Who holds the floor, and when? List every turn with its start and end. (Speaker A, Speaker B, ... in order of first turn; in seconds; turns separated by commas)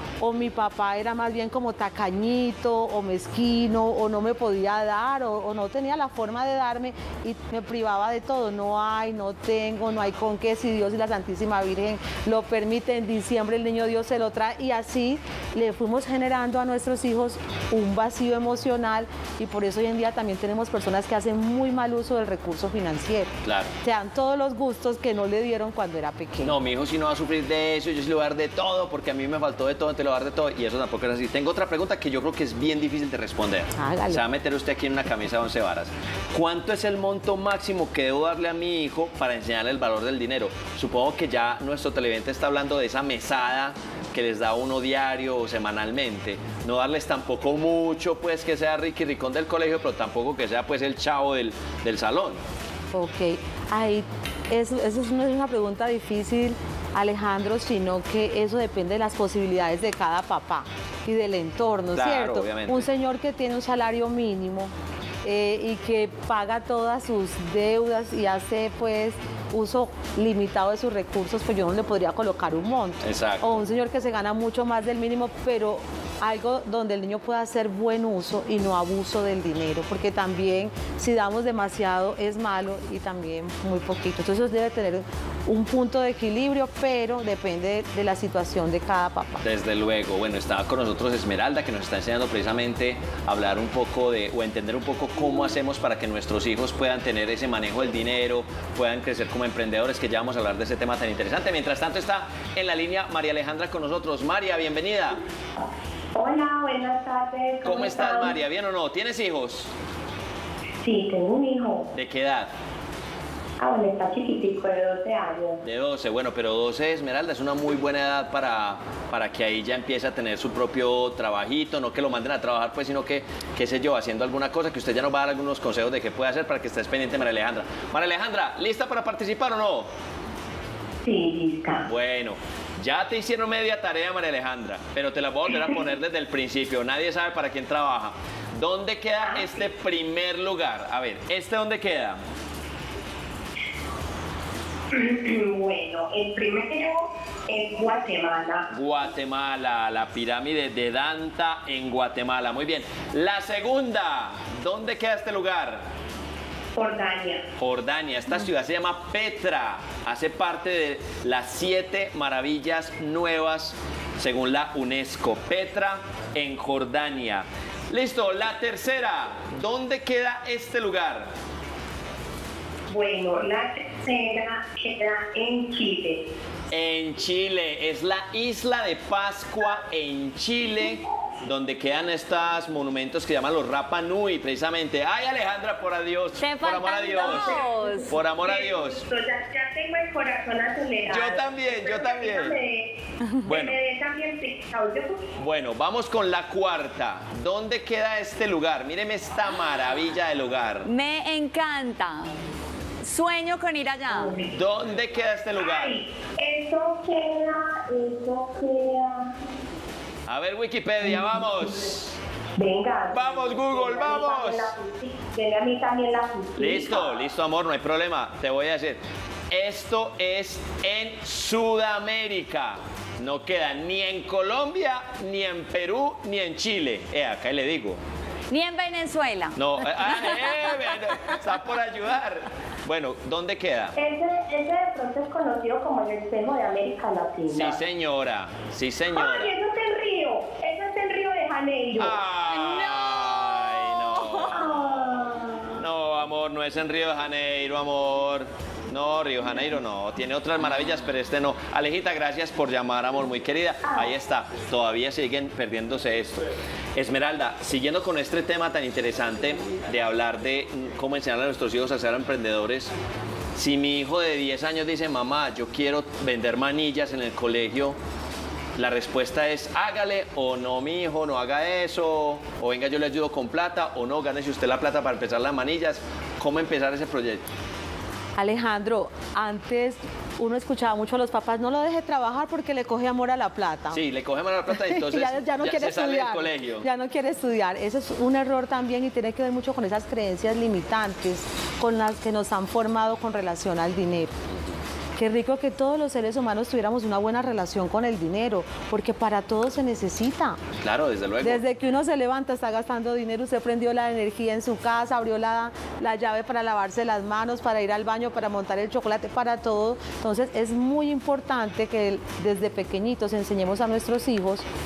Speaker A: 0.2-26.6, Speaker B: 23.4-23.7, Speaker B: 26.4-52.4, Speaker A: 33.8-34.2, Speaker A: 52.9-64.7, Speaker B: 61.9-62.9, Speaker A: 65.2-89.4, Speaker B: 73.0-73.6, Speaker B: 89.4-105.2, Speaker C: 106.1-108.4, Speaker B: 107.6-109.7, Speaker C: 110.8-111.9, Speaker B: 111.9-112.5, Speaker C: 113.6-115.6, Speaker B: 115.6-129.9, Speaker C: 131.0-131.8, Speaker B: 131.8-142.2, Speaker C: 139.2-139.5, Speaker C: 144.9-148.7, Speaker B: 148.7-155.8, Speaker C: 156.8-157.4, Speaker B: 157.6-171.3, Speaker C: 172.9-176.2, Speaker B: 176.7-187.6, Speaker D: 186.4-188.1, Speaker C: 187.1-192.9, Speaker B: 188.1-189.1, Speaker B: 191.1-192.5, Speaker B: 193.4-193.8, Speaker C: 193.4-195.2, Speaker B: 195.4-200.9, Speaker D: 200.8-202.3, Speaker D: 203.0-204.3, Speaker C: 204.1-204.5, Speaker B: 204.5-205.9, Speaker C: 205.5-209.3, Speaker B: 210.3-212.2, Speaker C: 211.0-211.7, Speaker C: 212.6-217.3, Speaker B: 213.1-214.7, Speaker B: 216.6-228.0, Speaker D: 228.5-230.9, Speaker B: 229.6-233.9, Speaker C: 234.0-237.8, Speaker B: 237.5-239.5, Speaker C: 239.1-242.2, Speaker B: 242.0-256.4, Speaker D: 242.4-244.6, Speaker C: 244.5-245.8, Speaker C: 253.8-254.1, Speaker B: 256.9-262.9, Speaker B: 263.5-268.0, Speaker B: 268.8-277.4, Speaker A: 278.4-284.0, Speaker B: 283.9-286.9, Speaker A: 284.7-294.3, Speaker A: 295.2-300.6, Speaker B: 300.8-301.6, Speaker A: 301.4-314.6